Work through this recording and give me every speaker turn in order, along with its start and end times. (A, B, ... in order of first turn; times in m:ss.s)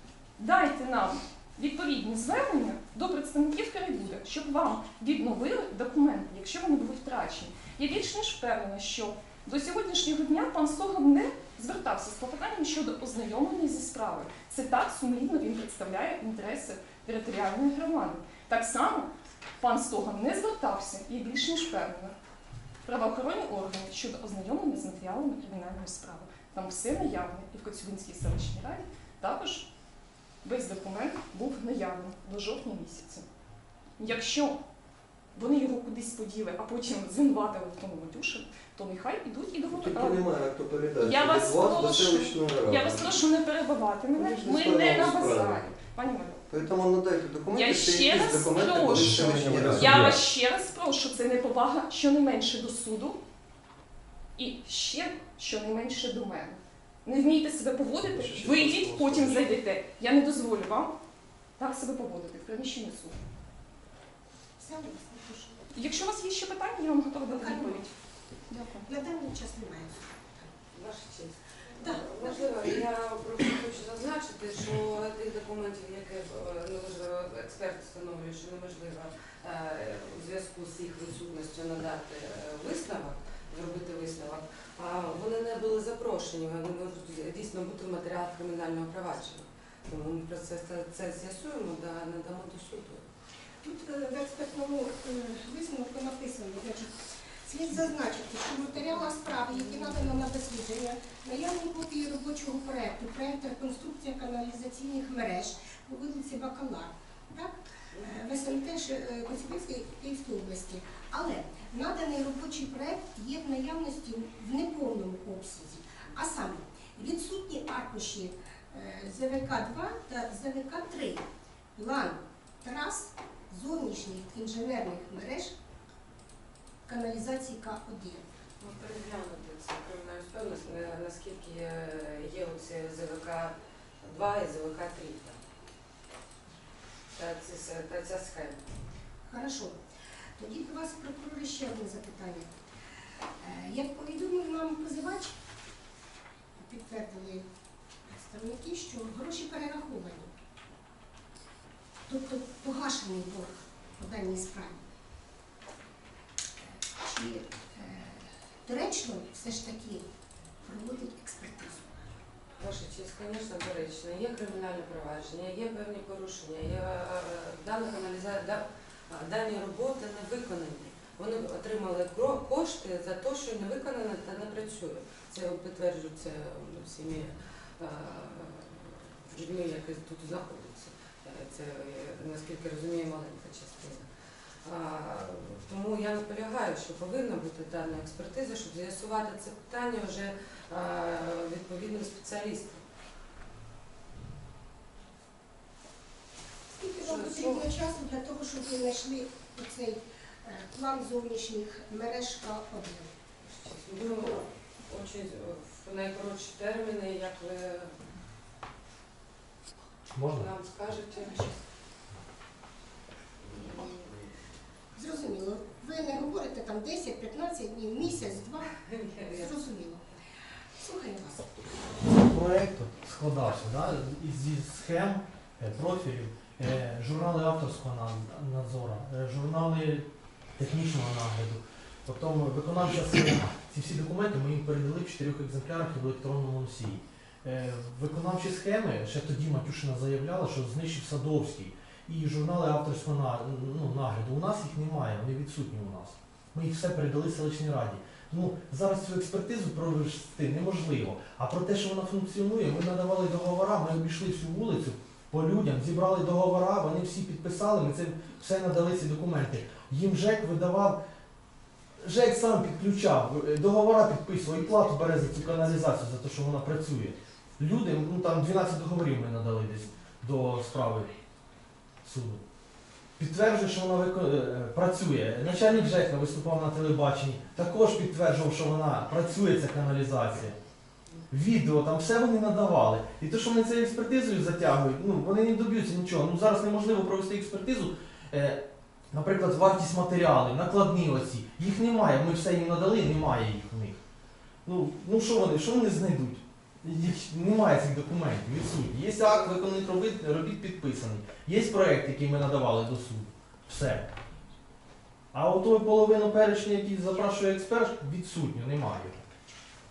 0:00.4-0:22.1 A
0:22.8-0:29.7 A
0:30.4-0:33.2 A
0:34.0-0:34.6 A
0:35.3-0:40.2 A
0:39.7-0:43.2 B
0:41.0-0:46.4 A
0:44.1-0:45.7 B
0:46.5-0:50.1 B
0:47.5-0:53.2 A
0:48.9-0:50.2 C
0:54.4-1:00.9 A
0:58.0-0:59.5 B
1:01.6-1:03.2 A
1:04.6-1:05.6 D
1:05.7-1:07.9 A
1:07.3-1:07.9 D
1:08.5-1:10.6 D
1:10.7-1:33.0 E
1:11.8-1:12.8 D
1:33.6-2:05.5 D
2:06.8-2:08.2 D
2:08.6-2:15.4 E
2:17.2-2:18.6 E
2:19.3-2:19.8 D
2:20.4-2:22.6 D
2:23.4-2:25.4 D
2:26.6-2:27.5 D
2:28.0-2:30.3 D
2:32.1-2:34.8 D
2:36.6-2:40.1 D
2:40.6-2:42.0 D
2:42.6-3:04.1 E
3:04.6-3:12.8 E
3:16.7-3:23.1 D
3:17.0-3:17.6 E
3:23.4-3:27.9 E
3:30.1-3:30.5 C
3:30.3-3:31.5 E
3:31.1-3:31.5 D
3:33.5-3:34.1 E
3:33.6-3:33.9 D
3:35.0-3:40.0 D
3:38.8-3:39.6 E
3:40.8-3:41.5 D
3:42.1-4:21.0 C
4:22.0-4:31.1 C
4:32.0-4:32.4 C
4:33.2-4:40.6 C
4:41.3-4:54.0 C
4:54.6-5:04.1 C
5:05.3-5:09.2 C